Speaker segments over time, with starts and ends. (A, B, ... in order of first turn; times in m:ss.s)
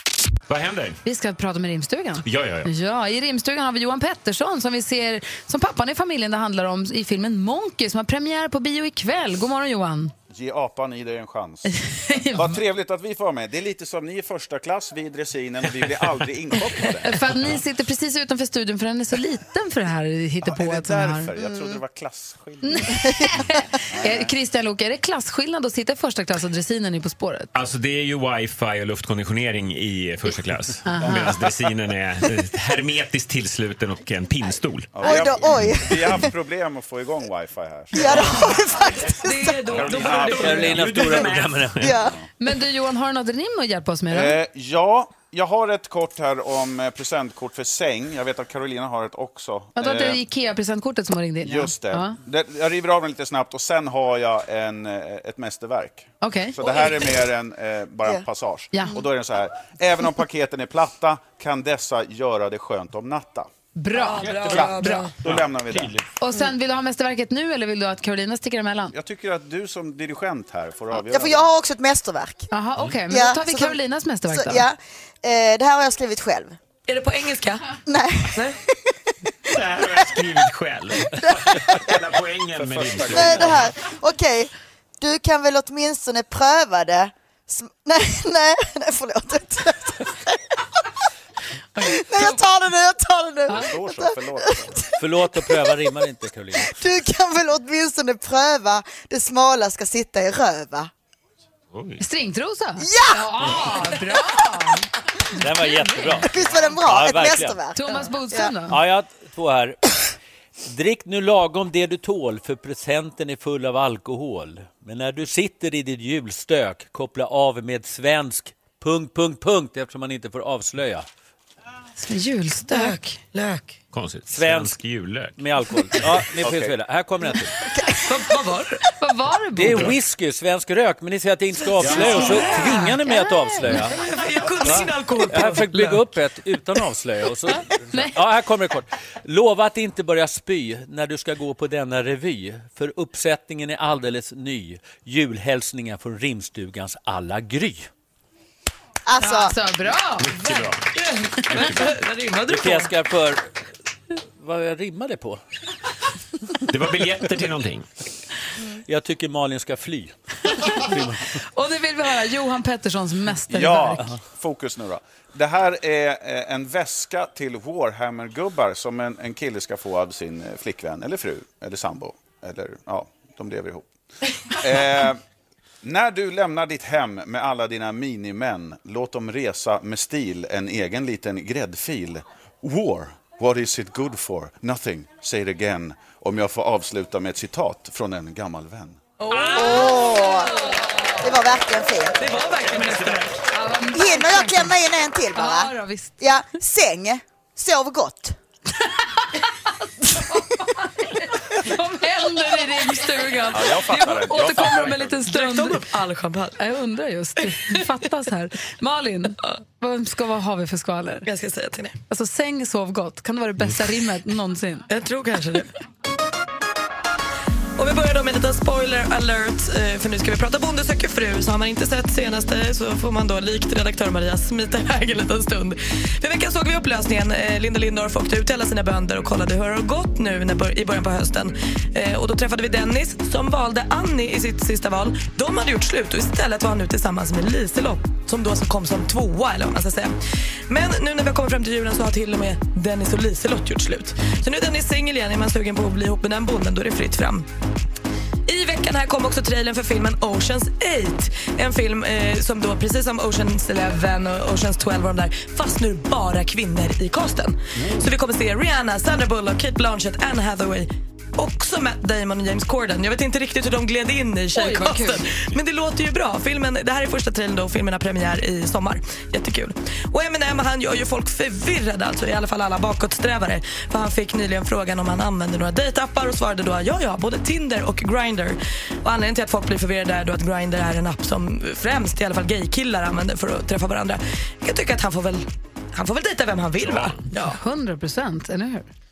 0:00.5-0:01.0 A
0:01.0-0:10.1 B
0:02.2-0:02.7 A
0:10.3-0:11.8 C
0:11.7-0:12.6 B
0:12.3-0:17.3 C
0:17.0-0:21.3 B
0:20.4-0:24.3 C
0:21.4-0:21.8 D
0:22.6-0:27.5 B
0:27.5-0:35.0 A
0:30.8-0:31.4 B
0:34.9-0:38.9 C
0:35.0-0:36.3 D
0:37.9-0:39.7 D
0:39.2-0:40.8 E
0:39.7-0:40.9 C
0:40.0-0:41.9 A
0:40.3-0:42.0 F
0:41.8-0:42.2 D
0:42.4-0:44.4 B
0:44.1-0:50.2 C
0:49.8-0:52.2 B
0:51.4-1:03.5 C
0:56.2-0:56.6 B
1:03.8-1:05.1 B
1:03.9-1:05.2 E
1:04.2-1:06.0 C
1:05.3-1:05.8 A
1:06.2-1:08.9 B
1:08.9-1:11.5 C
1:10.9-1:12.5 D
1:12.5-1:14.6 B
1:13.1-1:13.8 D
1:14.3-1:16.6 D
1:16.9-1:17.7 E
1:17.9-1:18.6 D
1:19.5-1:23.6 A
1:21.3-1:21.7 D
1:22.5-1:23.6 C
1:23.1-1:30.3 D
1:31.8-1:32.4 B
1:31.8-1:35.7 D
1:33.5-1:34.8 C
1:35.0-1:36.8 F
1:36.6-1:40.9 D
1:41.7-1:42.0 A
1:42.0-1:44.9 B
1:42.8-1:43.8 D
1:45.4-1:47.6 F
1:45.6-1:46.2 B
1:46.2-1:48.5 D
1:47.7-1:48.8 B
1:48.7-1:49.8 F
1:50.6-2:01.0 F
2:02.0-2:03.0 B
2:02.7-2:03.7 E
2:03.9-2:05.4 A
2:04.3-2:04.8 F
2:05.4-2:07.5 F
2:06.4-2:06.8 C
2:07.7-2:08.1 D
2:08.0-2:08.8 E
2:09.0-2:09.9 B
2:09.6-2:14.0 F
2:11.8-2:13.0 E
2:12.1-2:13.8 B
2:13.6-2:16.0 E
2:14.6-2:27.9 F
2:29.0-2:29.5 D
2:29.2-2:30.7 B
2:30.2-2:30.9 A
2:30.9-2:32.9 E
2:31.5-2:31.9 A
2:32.5-2:33.4 F
2:34.4-2:35.4 F
2:36.7-2:37.8 A
2:38.8-2:40.1 F
2:40.7-2:41.4 F
2:41.5-2:44.1 B
2:43.5-2:53.9 C
2:54.5-2:55.2 C
2:55.8-3:09.0 C
3:09.2-3:11.2 E
3:09.3-3:09.6 A
3:09.5-3:10.5 D
3:11.2-3:12.2 D
3:12.2-3:13.3 E
3:12.5-3:13.3 A
3:13.5-3:14.8 B
3:13.9-3:18.4 D
3:15.3-3:16.2 B
3:20.0-3:25.8 B
3:23.5-3:25.2 C
3:25.3-3:26.6 E
3:26.6-3:31.3 B
3:31.2-3:32.0 E
3:32.1-3:34.8 B
3:34.9-3:35.7 E
3:37.8-4:00.2 E
4:00.7-4:07.5 E
4:08.4-4:47.6 E
4:24.5-4:25.2 B
4:46.8-4:47.3 A
4:47.4-4:48.9 B